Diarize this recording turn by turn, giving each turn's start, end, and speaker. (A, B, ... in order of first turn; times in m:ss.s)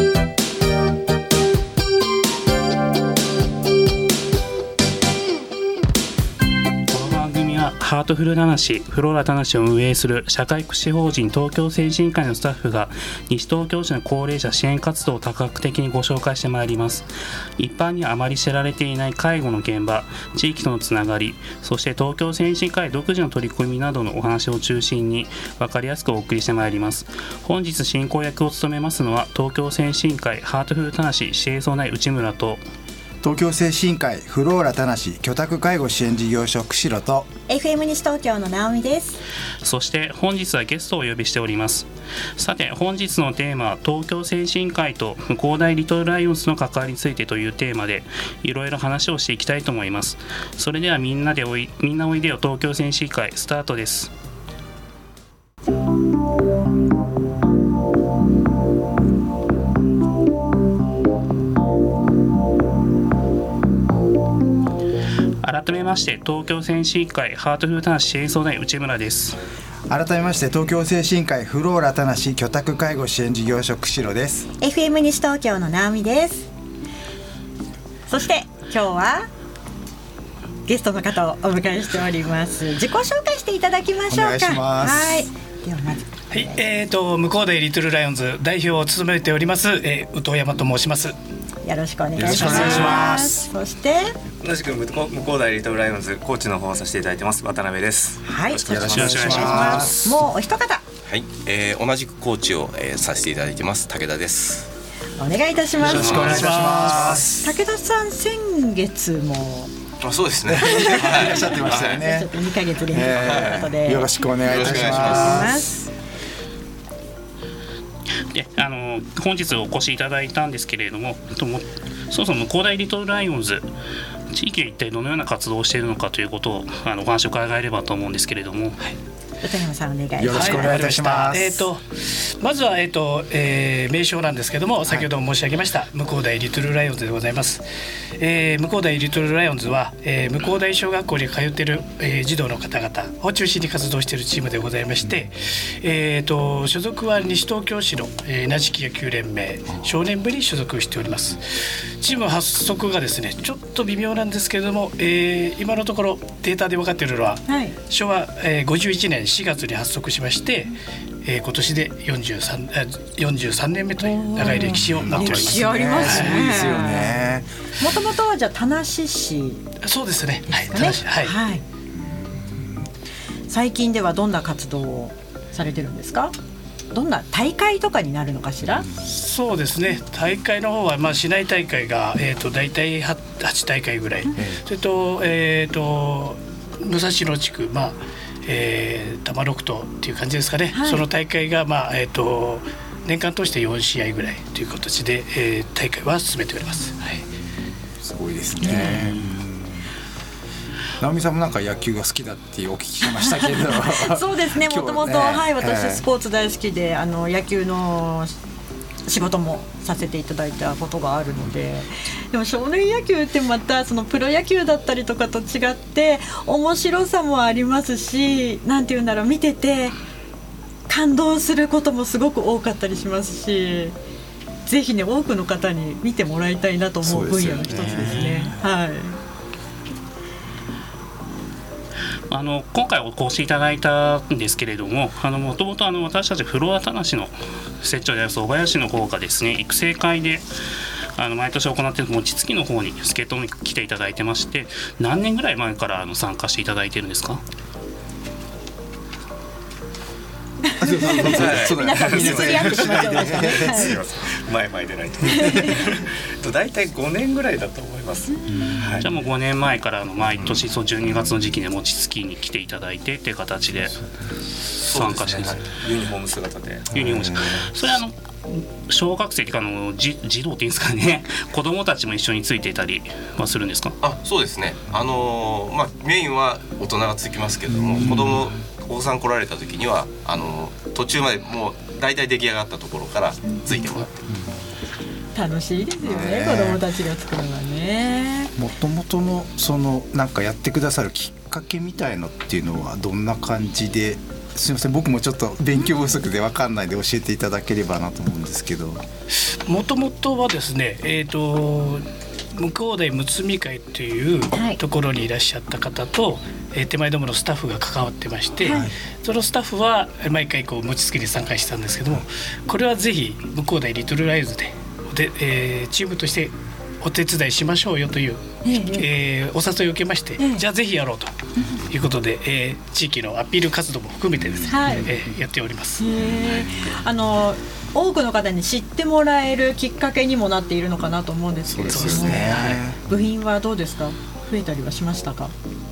0:06.9-0:17.1 A
0:17.6-0:32.6 A
0:33.2-0:37.3 B
0:37.5-0:39.2 C
0:39.6-0:54.1 A
1:05.4-1:09.4 A
1:09.9-1:14.5 B
1:14.6-1:16.5 C
1:18.1-1:19.3 C
1:20.7-1:26.6 C
1:24.1-1:25.3 B
1:26.3-1:31.2 D
1:31.6-1:34.1 C
1:32.1-1:33.3 B
1:32.2-1:33.4 D
1:34.4-1:39.9 E
1:38.2-1:40.8 C
1:38.7-1:40.1 B
1:39.1-1:39.9 A
1:41.1-1:44.7 F
1:45.2-1:46.8 C
1:45.8-1:47.3 B
1:45.8-1:47.6 D
1:47.4-1:49.7 C
1:50.0-1:52.0 F
1:50.4-1:52.3 B
1:50.6-1:55.9 C
1:52.9-1:55.7 B
1:54.4-1:55.5 F
1:58.3-2:03.7 A
2:04.3-2:08.8 A
2:09.4-2:11.1 C
2:10.2-2:11.6 B
2:10.3-2:17.6 D
2:18.2-2:46.5 D
2:37.5-2:37.8 C
2:44.0-2:47.2 C
2:44.6-2:47.5 B
2:47.8-2:49.7 C
2:49.8-2:51.4 D
2:50.5-2:51.6 C
2:51.9-2:52.9 B
2:53.5-2:56.3 C
2:56.9-2:58.9 C
2:59.0-3:17.3 D
3:04.4-3:04.6 B
3:10.7-3:11.0 C
3:18.0-3:19.9 B
3:18.6-3:19.1 C
3:21.0-3:26.0 B
3:23.2-3:28.3 C
3:29.1-3:39.9 C
3:40.9-3:44.0 C
3:44.6-3:49.2 C
3:47.0-3:48.6 B
3:52.3-4:00.4 A
4:01.2-4:07.4 A
4:10.6-4:13.9 C
4:10.8-4:14.0 B
4:11.2-4:19.1 E
4:15.3-4:15.8 C
4:18.5-4:19.0 B
4:19.0-4:24.0 A
4:20.4-4:20.6 F
4:24.7-4:25.6 A
4:24.9-4:25.6 F
4:25.6-4:26.9 E
4:26.9-4:34.0 A
4:26.9-4:27.6 B
4:34.0-4:44.3 F
4:37.9-4:38.5 B
4:45.3-4:48.5 C
4:46.0-4:46.8 B
4:48.6-4:59.0 B
4:55.8-4:56.1 C
4:59.4-5:21.3 D
5:04.5-5:04.8 C
5:08.6-5:08.9 C
5:08.7-5:08.9 B
5:18.6-5:19.1 C
5:20.4-5:20.6 C
5:21.9-5:26.0 D
5:24.7-5:25.1 C
5:26.0-5:35.5 C
5:31.7-5:33.0 B
5:31.9-5:32.8 D